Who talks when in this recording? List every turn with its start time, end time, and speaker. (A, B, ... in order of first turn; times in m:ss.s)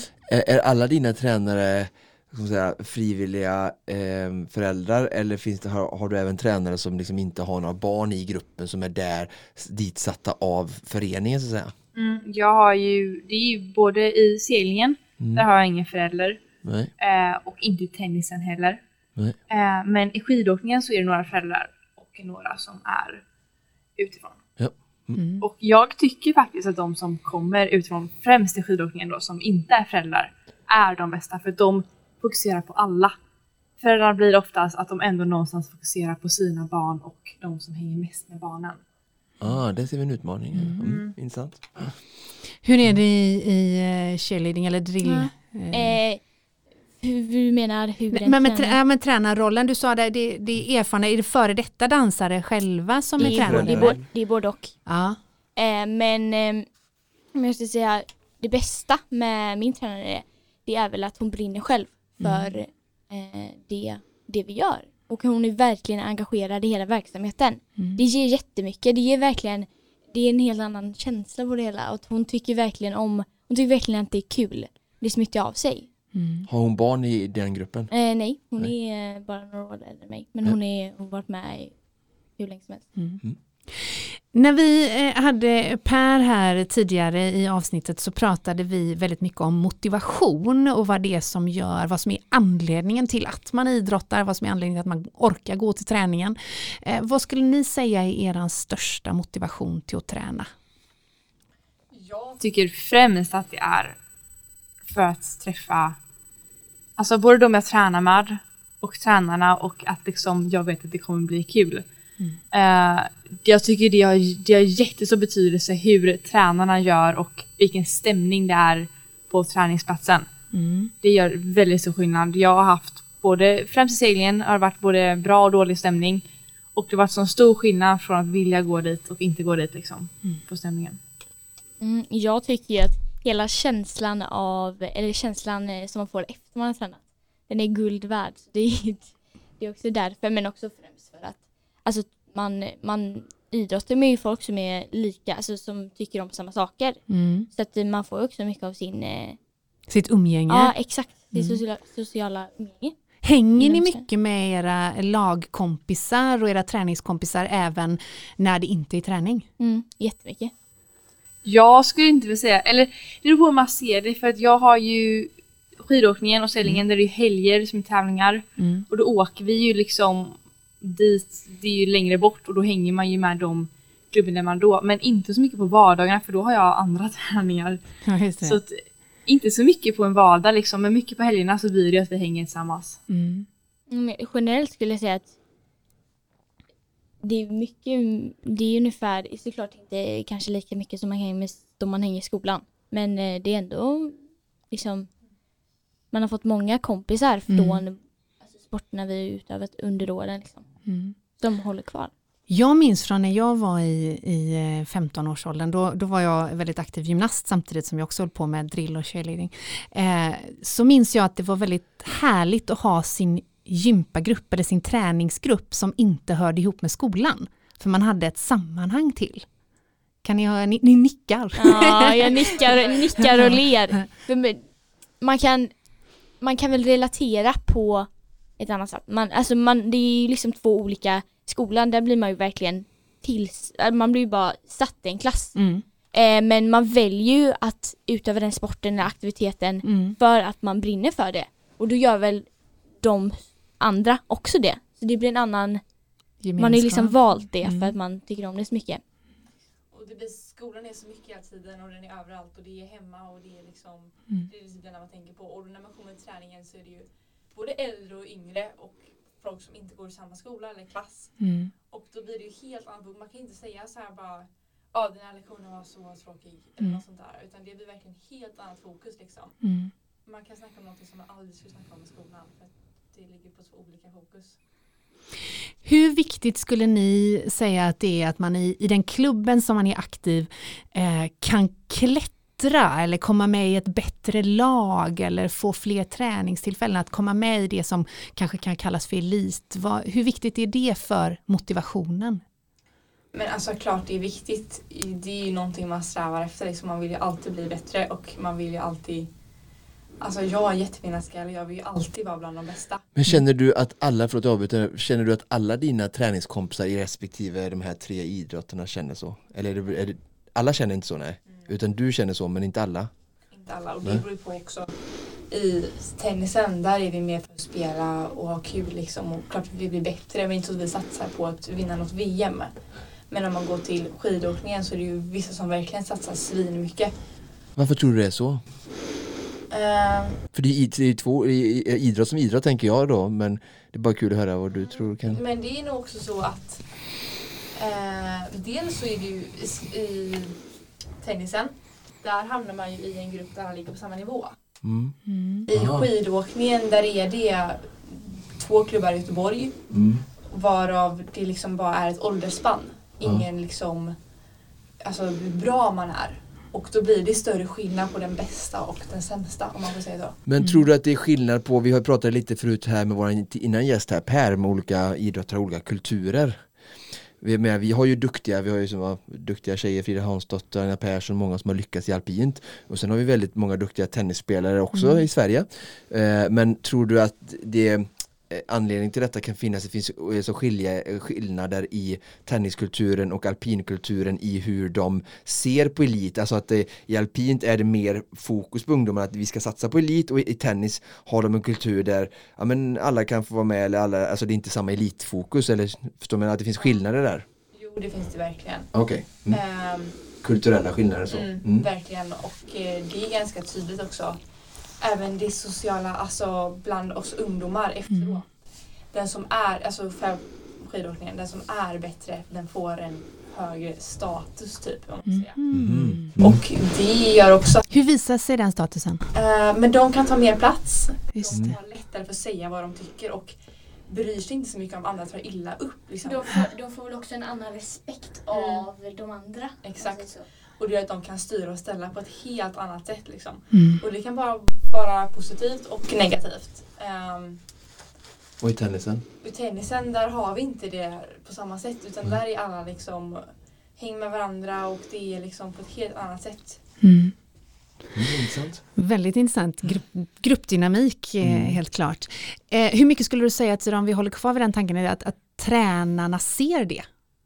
0:00.3-0:11.7 A
0:11.9-0:16.4 B
0:15.2-0:15.4 A
0:16.6-0:16.9 A
0:17.0-0:18.8 B
0:19.5-0:23.2 B
0:24.0-0:24.4 B
0:24.6-0:25.2 A
0:25.2-0:25.4 C
0:25.4-0:33.1 B
0:33.8-0:38.8 B
0:39.4-0:41.9 A
0:40.5-0:40.8 C
0:40.8-0:41.1 B
0:42.6-0:46.0 C
0:45.0-0:46.2 D
0:47.0-0:48.8 D
0:48.1-0:54.0 C
0:53.2-0:54.0 A
0:53.2-0:54.8 D
0:54.9-0:55.2 C
0:55.6-0:56.7 D
0:57.3-1:15.9 D
1:02.2-1:02.6 C
1:07.8-1:08.0 C
1:16.1-1:16.4 C
1:16.5-1:17.9 A
1:17.9-1:21.8 D
1:22.4-1:22.9 D
1:23.8-1:40.5 C
1:42.4-1:44.0 B
1:44.8-1:46.0 B
1:47.0-1:51.8 B
1:52.5-2:00.3 B
2:00.5-2:00.9 C
2:01.0-2:06.2 B
2:06.7-2:11.0 B
2:11.8-2:29.4 D
2:27.1-2:27.5 C
2:29.9-2:31.6 C
2:30.5-2:33.0 D
2:33.2-2:39.4 C
2:33.6-2:34.0 D
2:39.6-2:40.5 D
2:41.4-2:57.8 B
2:48.6-2:48.8 C
2:58.0-2:58.6 C
2:58.4-3:03.0 B
3:03.1-3:03.4 C
3:03.9-3:05.3 D
3:07.2-3:14.2 D
3:14.7-3:15.1 D
3:16.1-3:20.7 D
3:17.5-3:17.8 C
3:20.8-3:21.1 C
3:21.4-3:22.1 D
3:22.5-3:39.5 C
3:40.2-3:42.3 C
3:41.6-3:45.8 D
3:43.2-3:43.6 C
3:46.4-4:05.8 D
3:55.5-3:55.8 C
3:59.8-4:00.2 C
4:06.4-4:07.9 C
4:06.6-4:09.0 D
4:10.1-4:13.9 E
4:14.5-4:17.0 E
4:17.5-4:21.3 E
4:21.4-4:21.7 C
4:22.0-4:24.4 E
4:25.0-4:29.4 E
4:29.6-4:29.9 C
4:30.4-4:32.5 E
4:33.2-4:34.4 E
4:35.8-4:52.4 C
4:53.3-4:59.3 E
5:00.2-5:03.0 E
5:03.1-5:13.1 A
5:13.5-5:22.7 E
5:23.3-5:27.2 E
5:27.8-5:28.6 A
5:29.7-5:30.4 E
5:30.5-5:35.4 A
5:35.3-5:40.6 E
5:41.2-5:44.6 E
5:44.8-5:45.1 A
5:45.3-5:45.7 C
5:45.7-5:49.8 E
5:45.7-5:46.1 A
5:49.9-5:50.2 A
5:50.5-5:54.2 E
5:55.0-6:00.4 E
6:00.4-6:06.7 A
6:07.4-6:37.4 A
6:14.9-6:15.2 C
6:37.7-6:38.9 E
6:38.9-6:39.6 A
6:39.4-6:40.2 E
6:40.4-6:41.8 A
6:41.3-6:44.4 E
6:45.0-6:57.8 E
6:48.1-6:48.4 C
6:55.2-6:56.3 C
6:55.7-6:56.6 A
6:57.9-6:59.2 C
6:59.3-7:06.6 E
7:01.5-7:01.8 A
7:06.2-7:10.4 D
7:08.5-7:08.9 E
7:09.8-7:17.6 E
7:13.7-7:14.0 C
7:18.6-7:19.2 A
7:19.4-7:26.8 E
7:27.0-7:27.3 C
7:28.1-7:28.8 A
7:29.0-7:37.0 C
7:31.4-7:31.8 A